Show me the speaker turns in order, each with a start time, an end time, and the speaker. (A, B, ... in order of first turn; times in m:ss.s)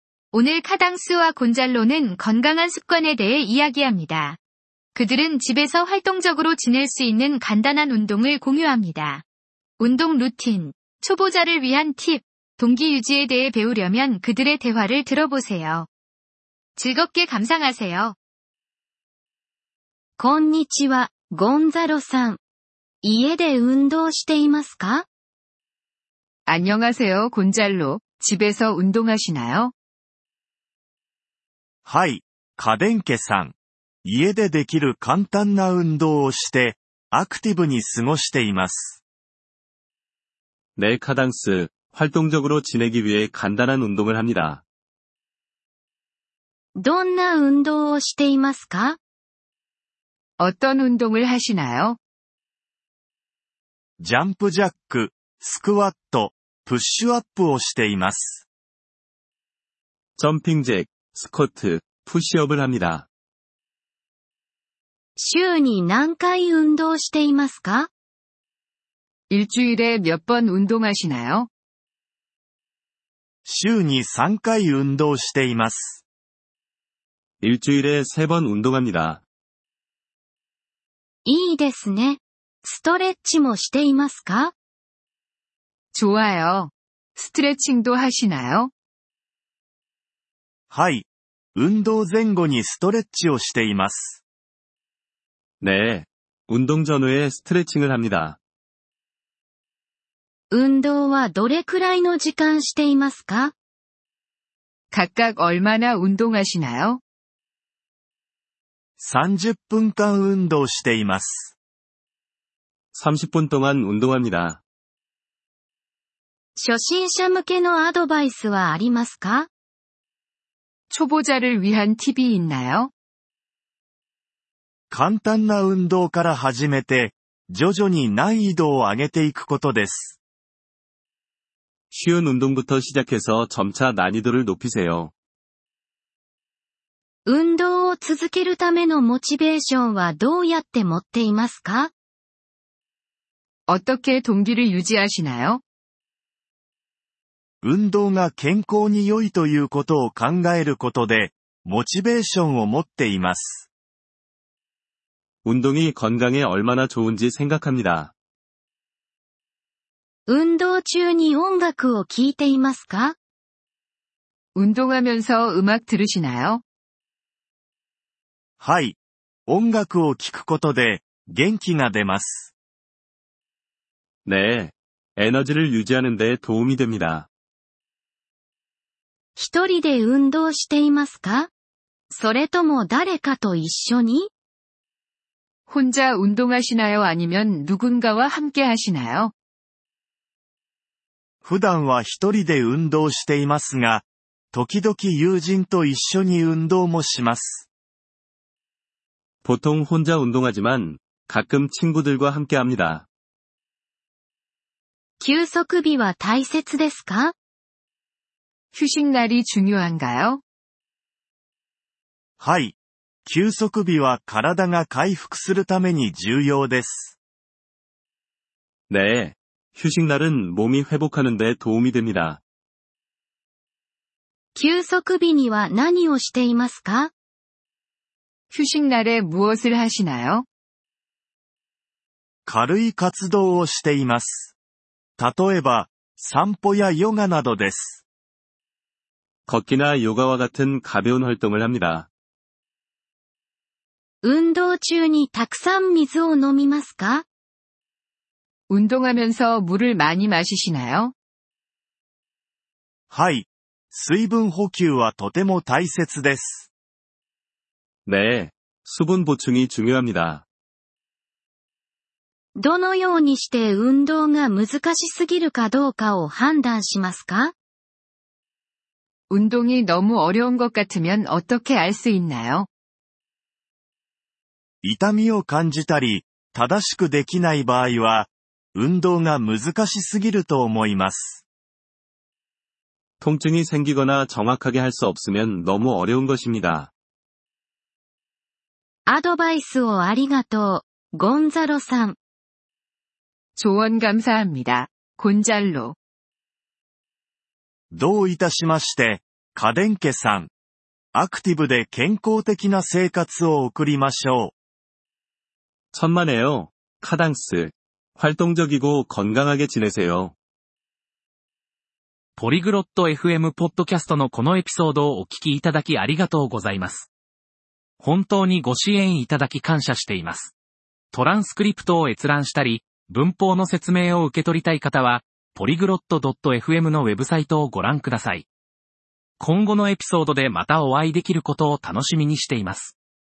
0:00.3-0:04.4 A
0:05.0-0:09.2 A
0:09.8-0:15.9 A
0:16.8-0:18.2 A
0:20.2-0:22.4 B
0:23.0-0:25.1 B
0:26.5-0:29.7 A
0:31.8-0:39.0 C
0:40.8-0:44.6 D
0:46.8-0:49.0 B
0:50.4-0:52.0 A
0:54.0-0:58.5 C
1:00.2-1:03.1 D
1:05.2-1:07.9 B
1:09.3-1:11.5 A
1:13.4-1:16.0 C
1:17.4-1:19.2 D
1:21.3-1:24.5 B
1:25.9-1:28.7 A
1:30.7-1:34.2 C
1:35.6-1:38.4 D
1:40.5-1:43.5 B
1:44.9-1:47.0 A
1:49.0-1:51.5 C
1:52.9-1:54.6 D
1:56.6-1:59.5 B
2:00.9-2:02.9 A
2:04.9-2:10.2 C
2:11.9-2:15.1 D
2:17.3-2:21.9 B
2:23.7-2:25.6 A
2:27.6-2:33.7 C
2:35.4-2:38.1 D
2:40.3-2:43.2 B
2:44.6-2:46.6 A
2:48.6-2:52.5 C
2:54.3-2:57.3 D
2:59.4-3:01.5 B
3:02.1-3:04.3 B
3:05.7-3:09.3 A
3:11.4-3:17.7 C
3:19.4-3:23.1 D
3:25.2-3:27.3 B
3:28.7-3:30.4 A
3:32.4-3:32.8 C
3:33.3-3:37.2 C
3:38.9-3:42.4 D
3:44.6-3:47.1 B
3:48.5-3:50.5 A
3:52.5-3:54.5 C
3:55.2-3:58.0 C
3:59.5-4:02.1 D
4:04.2-4:07.2 B
4:08.7-4:11.1 A
4:13.1-4:16.7 C
4:18.1-4:20.5 D
4:22.6-4:27.5 B
4:29.3-4:32.7 A
4:34.8-4:41.4 C
4:43.2-4:46.9 D
4:49.1-4:52.2 B
4:53.6-4:56.0 A
4:57.9-5:00.5 C
5:01.1-5:04.5 C
5:05.9-5:10.4 D
5:12.4-5:17.1 E
5:18.0-5:20.5 E
5:21.1-5:28.5 E
5:29.4-5:33.0 E